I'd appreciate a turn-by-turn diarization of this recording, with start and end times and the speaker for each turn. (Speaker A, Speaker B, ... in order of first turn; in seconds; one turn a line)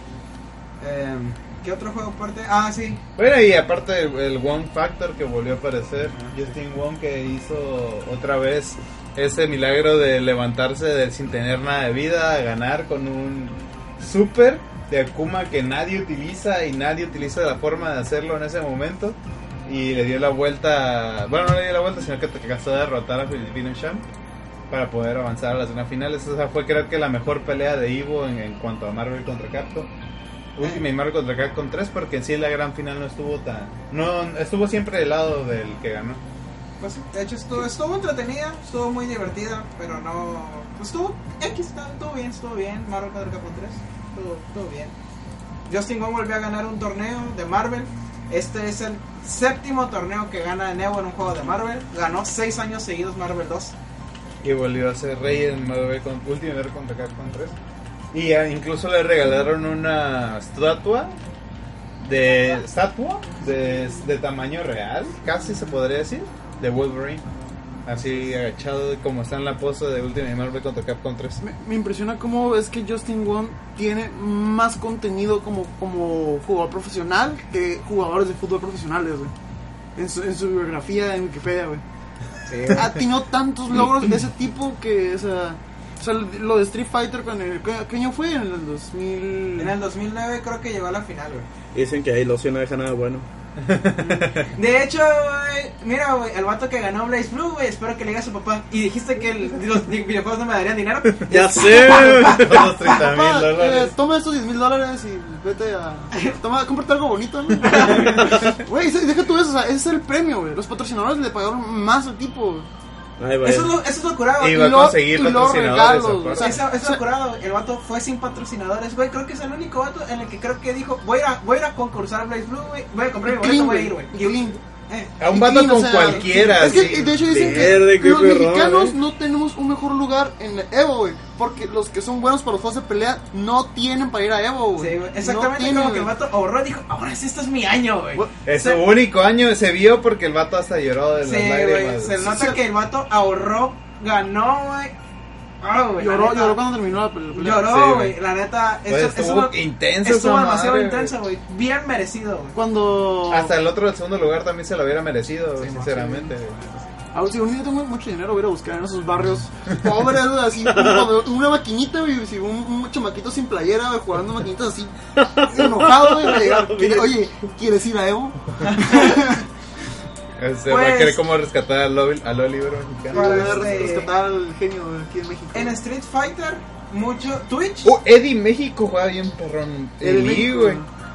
Speaker A: 0.8-3.0
Speaker B: 3.2-24.0
Speaker B: 24.7-29.9
Speaker B: 30.6-36.2
Speaker A: 36.8-44.9
Speaker A: 45.6-53.7
Speaker B: 54.4-57.5
Speaker B: 58.1-61.2
Speaker B: 62.0-67.2
Speaker B: 67.8-71.4
Speaker C: 71.4-79.3
Speaker C: 80.0-81.8
Speaker A: 82.5-83.0
Speaker C: 82.7-89.7
Speaker A: 89.6-91.5
Speaker D: 91.7-93.2
Speaker B: 93.6-94.5
Speaker A: 94.1-103.0
Speaker B: 101.1-103.9
Speaker D: 101.3-102.7
Speaker C: 102.8-112.7
Speaker A: 107.7-108.2
Speaker D: 108.0-108.5
Speaker D: 113.2-113.8
Speaker A: 113.4-114.7
Speaker B: 114.4-116.6
Speaker C: 114.5-117.0
Speaker A: 116.4-125.2
Speaker C: 123.2-124.6
Speaker B: 125.2-127.8
Speaker C: 125.3-136.1
Speaker A: 126.0-126.9
Speaker D: 127.2-129.0
Speaker A: 134.7-138.8
Speaker B: 138.4-142.3
Speaker A: 141.2-144.9
Speaker C: 142.2-142.6
Speaker A: 145.6-146.7
Speaker C: 146.0-147.7
Speaker A: 147.3-152.6
Speaker B: 147.6-148.2
Speaker B: 148.9-151.2
Speaker C: 152.5-153.5
Speaker B: 153.3-156.6
Speaker A: 155.6-156.9
Speaker C: 157.1-169.4
Speaker D: 160.7-161.1
Speaker D: 165.2-167.2
Speaker A: 168.6-169.3
Speaker B: 170.3-173.9
Speaker A: 170.7-171.2
Speaker A: 173.1-174.1
Speaker C: 173.1-175.8
Speaker A: 175.5-177.9
Speaker B: 177.8-180.8
Speaker C: 180.0-180.9